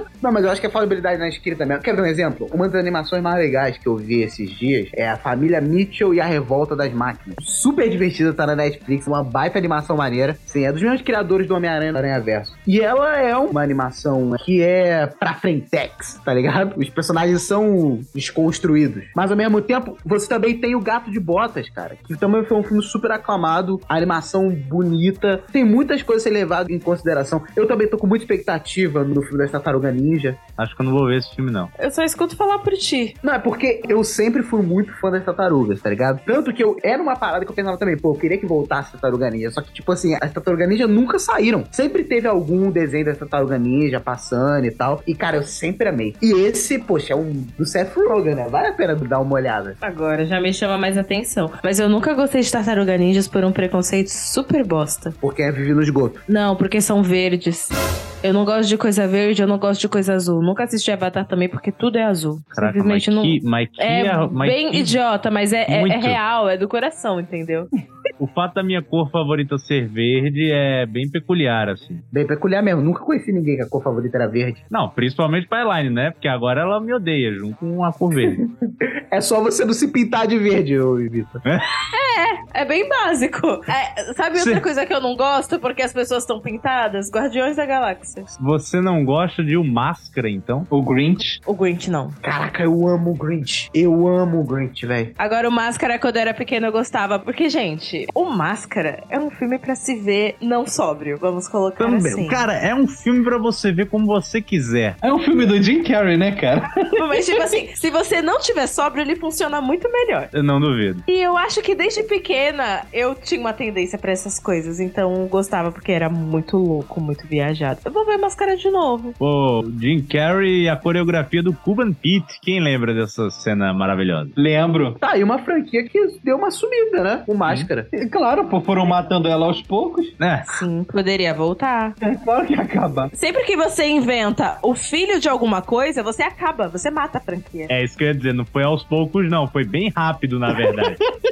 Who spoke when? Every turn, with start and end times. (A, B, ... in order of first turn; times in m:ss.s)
0:00.2-0:30.4 A
0:30.6-0:31.7 B
0:31.8-0:33.2 C
0:33.2-0:49.8 A
0:49.8-0:55.2 C
0:55.2-0:56.2 A
0:56.3-1:07.7 C
1:02.6-1:05.0 B
1:05.7-1:06.2 B
1:08.2-1:12.0 B
1:12.1-1:14.6 A
1:14.7-1:18.4 B
1:19.1-1:21.4 A
1:21.9-1:28.3 C
1:24.4-1:24.6 B
1:28.4-1:30.7 B
1:30.7-1:31.4 D
1:31.4-1:32.2 C
1:32.2-1:35.1 A
1:35.2-1:42.4 C
1:41.8-1:45.0 B
1:45.0-1:47.3 D
1:47.0-1:50.3 C
1:50.3-1:51.0 B
1:51.1-1:59.2 C
1:59.2-2:04.4 B
2:04.4-2:05.0 D
2:05.0-2:07.9 A
2:07.5-2:10.1 D
2:10.2-2:10.6 B
2:10.5-2:12.0 C
2:12.0-2:13.1 D
2:13.1-2:17.7 C
2:17.7-2:21.0 B
2:20.6-2:21.0 D